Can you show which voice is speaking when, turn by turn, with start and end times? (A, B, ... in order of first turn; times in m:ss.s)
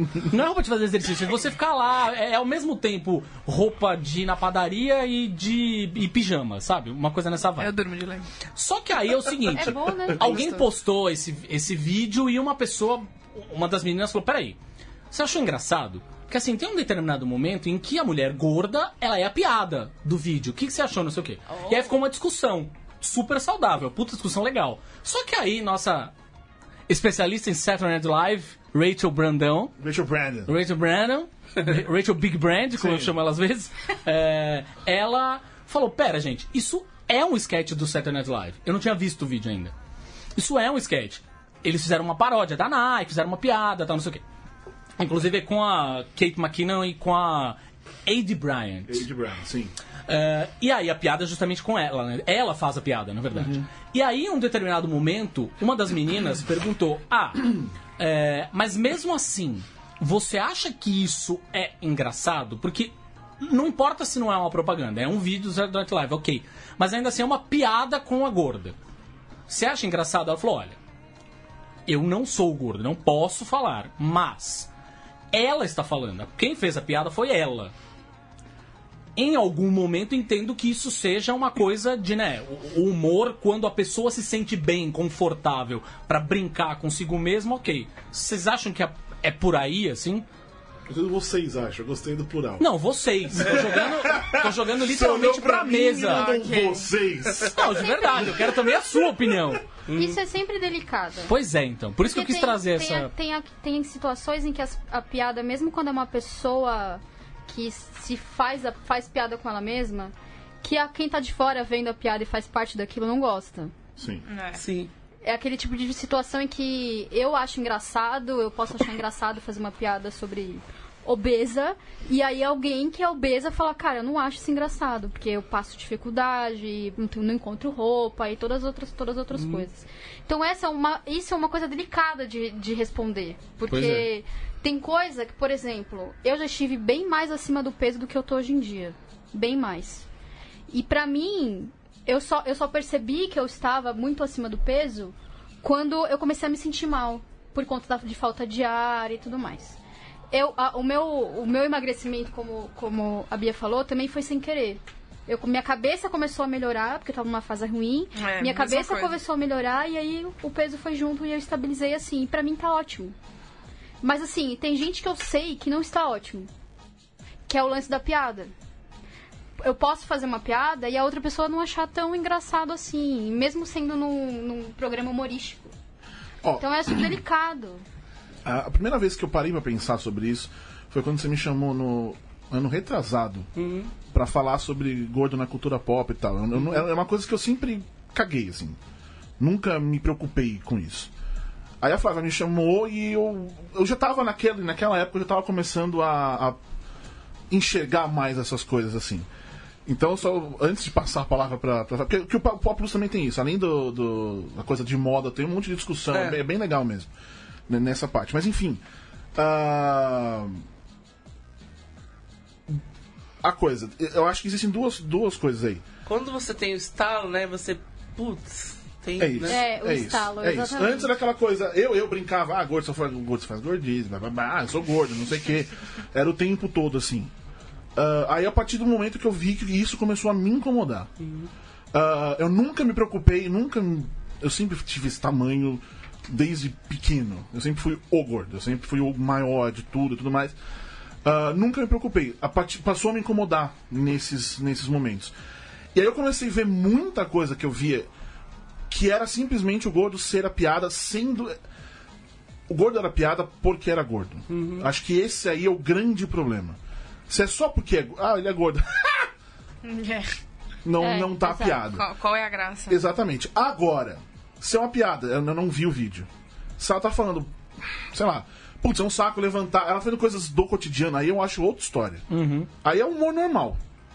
0:00.2-0:07.7 A
0:07.6-0:08.3 B
0:08.6-0:14.6 A
0:09.6-0:10.3 C
0:09.6-0:10.6 B
0:15.1-0:26.1 A
0:21.5-0:21.9 B
0:26.9-0:29.7 A
0:29.8-0:30.5 D
0:30.5-0:39.7 A
0:32.8-0:33.1 D
0:40.4-0:44.2 A
0:45.0-0:49.0 A
0:48.9-0:49.7 D
0:50.1-1:08.7 A
0:53.3-0:53.7 D
1:09.5-1:10.8 A
1:11.8-1:14.7 A
1:15.3-1:17.7 A
1:19.2-1:30.2 A
1:30.9-1:32.7 D
1:32.6-1:36.3 A
1:33.3-1:38.2 D
1:36.0-1:36.9 B
1:37.5-1:39.6 A
1:37.6-1:38.6 C
1:39.9-1:40.2 E
1:39.9-1:41.3 C
1:41.3-1:43.1 A
1:42.0-1:53.7 C
1:54.0-1:54.2 D
1:54.3-1:54.6 B
1:54.6-1:54.9 E
1:55.2-2:20.0 C
2:09.3-2:09.7 E
2:13.7-2:14.1 A
2:20.7-2:29.8 C
2:30.3-2:43.1 C
2:38.1-2:39.2 B
2:44.0-2:46.5 C
2:47.5-2:48.5 C
2:49.6-2:55.7 C
2:56.6-2:57.8 C
2:58.4-3:03.5 D
3:03.6-3:03.9 E
3:04.1-3:08.8 D
3:06.6-3:06.8 E
3:09.4-3:11.1 D
3:11.8-3:16.6 D
3:17.5-3:19.3 D
3:19.8-3:27.1 D
3:26.1-3:26.4 E
3:27.7-3:28.8 D
3:29.3-3:30.6 D
3:33.4-3:35.8 D
3:36.0-3:39.6 E
3:39.2-3:47.3 D
3:39.5-3:41.1 C
3:48.0-3:51.1 D
3:51.2-3:51.5 E
3:51.9-4:00.6 D
4:01.2-4:05.3 D
4:05.9-4:08.1 D
4:08.9-4:11.6 D
4:12.7-4:19.3 D
4:14.5-4:14.9 E
4:19.8-4:20.3 B
4:20.8-4:22.0 D
4:21.0-4:21.8 C
4:21.8-4:23.0 B
4:22.9-4:32.2 D
4:32.3-4:32.7 A
4:32.8-4:33.8 D